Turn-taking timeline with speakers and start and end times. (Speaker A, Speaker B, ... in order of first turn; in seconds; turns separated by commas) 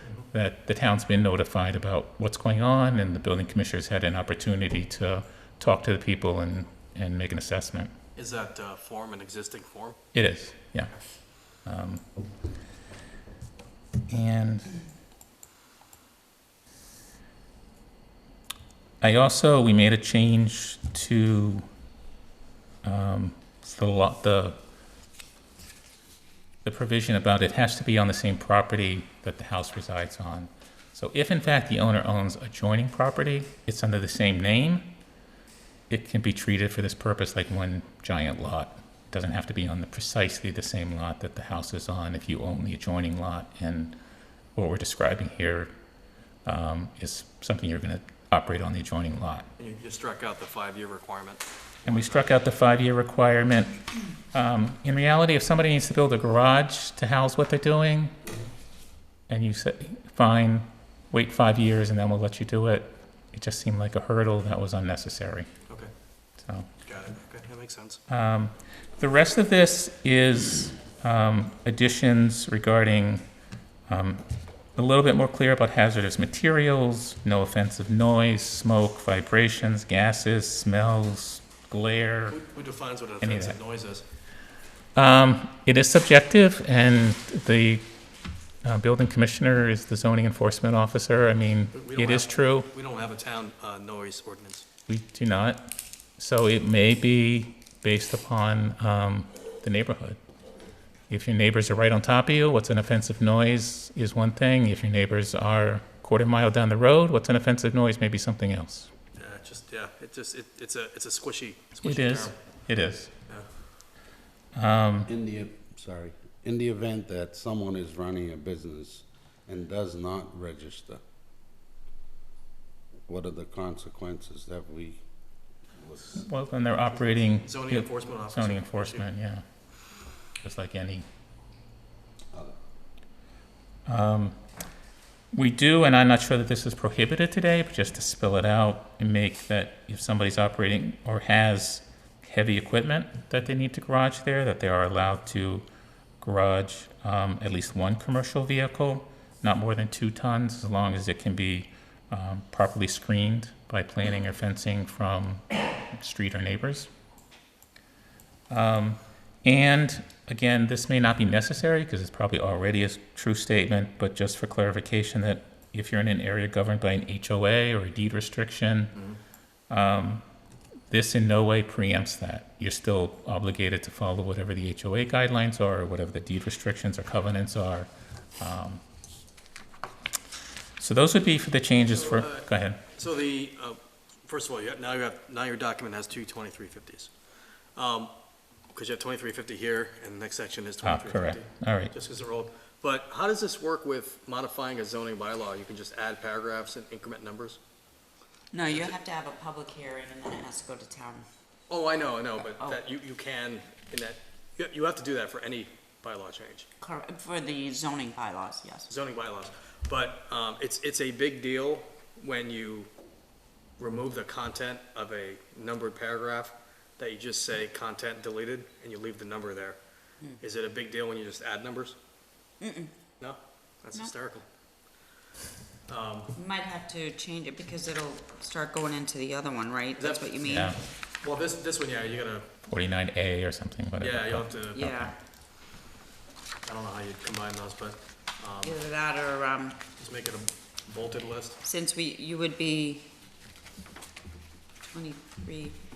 Speaker A: 0.3-7.9, Speaker B: 8.2-10.0, Speaker A: 10.1-10.9, Speaker A: 11.6-12.0, Speaker A: 14.1-14.7, Speaker A: 19.0-21.6, Speaker A: 22.8-24.6, Speaker A: 26.6-34.9, Speaker A: 35.9-44.0, Speaker A: 44.5-45.7, Speaker A: 46.5-49.5, Speaker B: 49.6-52.4, Speaker A: 51.9-58.1, Speaker A: 59.3-65.5, Speaker A: 66.4-66.7, Speaker B: 66.8-68.0, Speaker A: 68.1-73.2, Speaker A: 73.9-74.2, Speaker A: 74.8-82.4, Speaker B: 82.3-84.0, Speaker A: 83.2-83.6, Speaker A: 84.9-87.9, Speaker A: 88.6-92.7, Speaker B: 91.7-94.6, Speaker A: 94.9-100.2, Speaker A: 101.1-108.9, Speaker B: 109.2-112.4, Speaker A: 111.8-113.1, Speaker A: 114.5-115.1, Speaker C: 115.1-121.0, Speaker C: 123.1-125.0, Speaker C: 125.8-126.2, Speaker A: 126.1-129.4, Speaker B: 127.2-129.1, Speaker A: 130.4-131.1, Speaker A: 133.8-134.4, Speaker A: 135.3-145.7, Speaker A: 146.2-156.9, Speaker A: 158.5-169.0, Speaker A: 169.7-170.2, Speaker A: 170.9-178.8, Speaker A: 180.8-182.8, Speaker B: 181.9-187.1, Speaker B: 187.7-188.1, Speaker B: 188.7-197.6, Speaker A: 190.8-191.9, Speaker D: 198.5-201.2, Speaker B: 198.6-199.0, Speaker B: 201.7-206.7, Speaker D: 202.4-202.8, Speaker D: 206.8-208.9, Speaker B: 208.9-212.9, Speaker B: 213.8-219.8, Speaker B: 220.4-221.9, Speaker D: 222.6-222.9, Speaker B: 223.2-224.4, Speaker B: 225.9-226.3, Speaker D: 226.3-230.8, Speaker B: 230.0-232.5, Speaker A: 230.4-230.8, Speaker A: 232.7-235.1, Speaker B: 234.0-234.9, Speaker D: 234.7-235.1, Speaker B: 236.6-238.8, Speaker D: 238.6-239.8, Speaker B: 240.0-241.6, Speaker D: 241.6-243.1, Speaker D: 244.9-245.8